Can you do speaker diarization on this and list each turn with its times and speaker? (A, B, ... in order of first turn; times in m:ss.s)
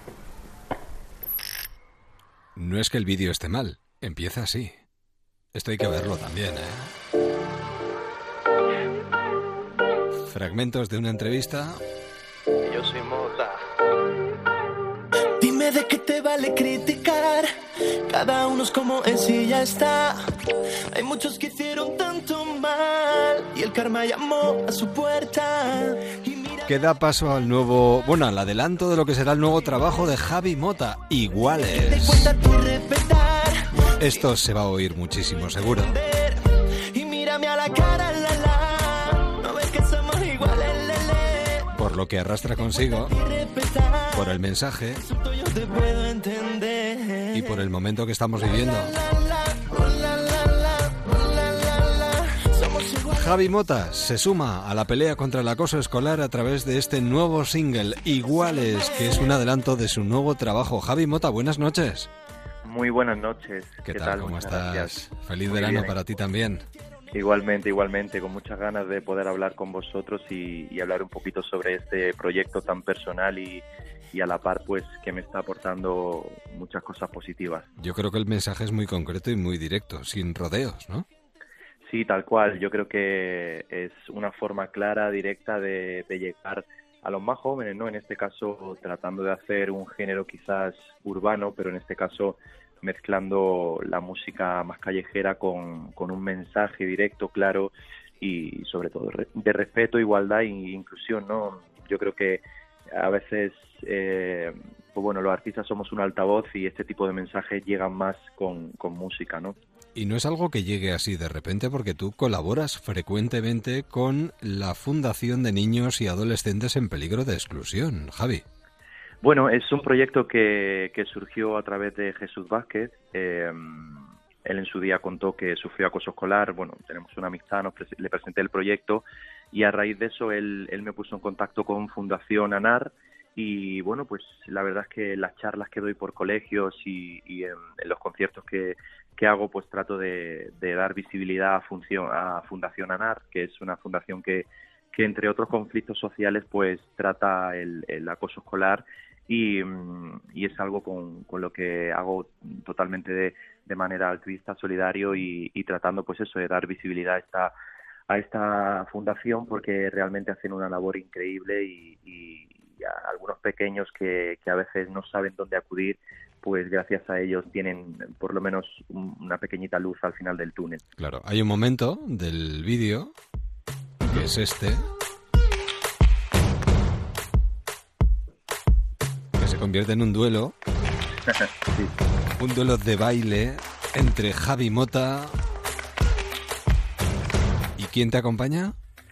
0:02.6-0:04.7 A
0:05.6-0:06.9 A
0:10.3-0:11.8 A
0:12.7-0:13.6 B
0:15.4-0:17.5 C
0:18.1-0:20.2 C
0:20.9-0:26.7 C
0:26.7-0:32.3 A
0:31.7-0:34.3 C
0:34.0-0:36.0 A
0:35.7-0:41.7 C
0:41.8-0:43.1 A
0:43.1-0:44.4 C
0:44.1-0:45.0 A
0:45.0-0:47.6 C
0:47.3-0:48.9 A
0:48.4-0:53.5 C
0:53.1-1:02.1 A
0:58.5-0:59.4 C
1:02.6-1:06.0 B
1:03.8-1:06.6 A
1:07.1-1:17.7 B
1:17.8-1:21.1 A
1:21.8-1:42.4 B
1:42.9-1:49.6 B
1:50.0-1:58.4 A
1:59.2-2:37.5 B
2:38.1-2:50.8 B
2:51.0-2:53.1 A
2:54.0-2:54.8 A
2:59.4-3:00.5 A
3:02.4-3:05.4 A
3:07.8-3:08.8 A